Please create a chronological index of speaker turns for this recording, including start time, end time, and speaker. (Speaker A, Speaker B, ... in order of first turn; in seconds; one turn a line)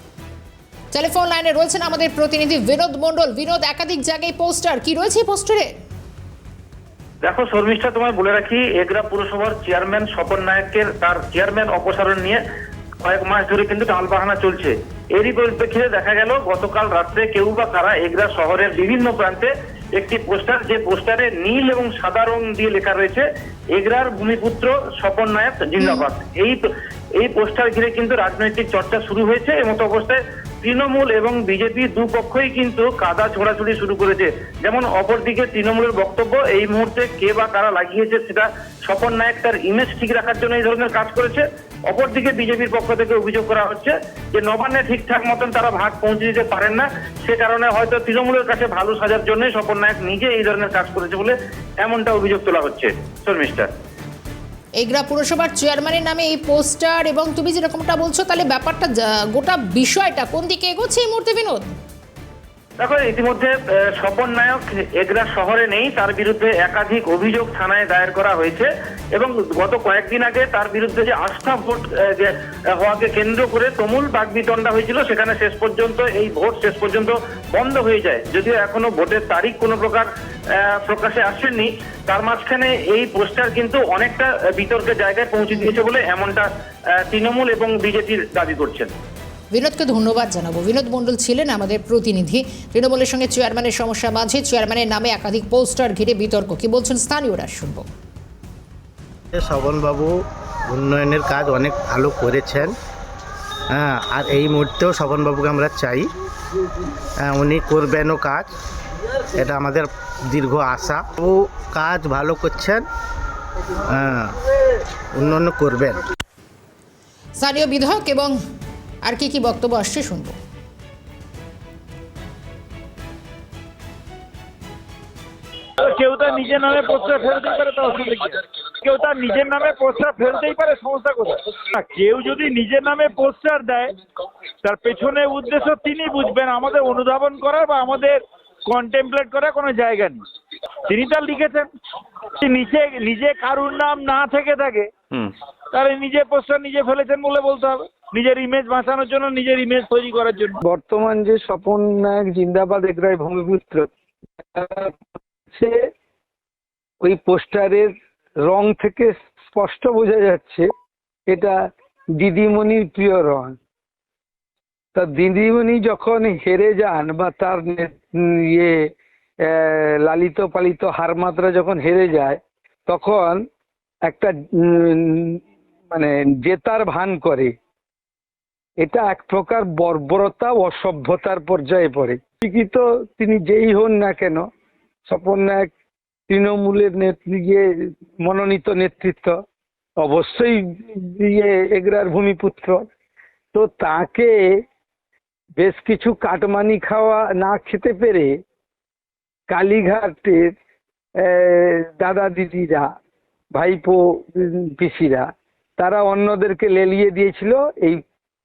Speaker A: 0.9-5.8
Speaker B: 7.2-12.4
Speaker B: 13.0-26.6
Speaker B: 27.2-53.7
Speaker A: 54.8-61.7
Speaker B: 62.8-80.1
Speaker B: 80.8-86.5
Speaker B: 87.1-88.9
Speaker A: 89.5-97.9
Speaker C: 99.3-102.7
Speaker C: 103.7-106.1
Speaker C: 107.2-108.5
Speaker C: 109.4-112.8
Speaker C: 113.9-114.4
Speaker C: 115.1-116.0
Speaker A: 117.4-118.4
Speaker A: 119.0-120.4
Speaker D: 125.8-133.9
Speaker D: 134.6-140.2
Speaker D: 140.8-141.7
Speaker D: 142.3-144.9
Speaker D: 145.7-150.6
Speaker E: 150.6-153.9
Speaker E: 154.4-155.8
Speaker E: 157.0-157.9
Speaker E: 158.4-160.7
Speaker E: 161.3-161.6
Speaker E: 162.2-163.6
Speaker E: 164.9-168.9
Speaker E: 169.4-173.4
Speaker E: 174.1-175.4
Speaker E: 175.9-177.5
Speaker E: 178.8-184.5
Speaker E: 185.1-185.7
Speaker E: 186.3-189.4
Speaker E: 190.0-192.8
Speaker E: 193.5-194.4
Speaker E: 195.6-198.4
Speaker E: 199.5-200.6
Speaker E: 201.2-202.9
Speaker E: 203.6-208.0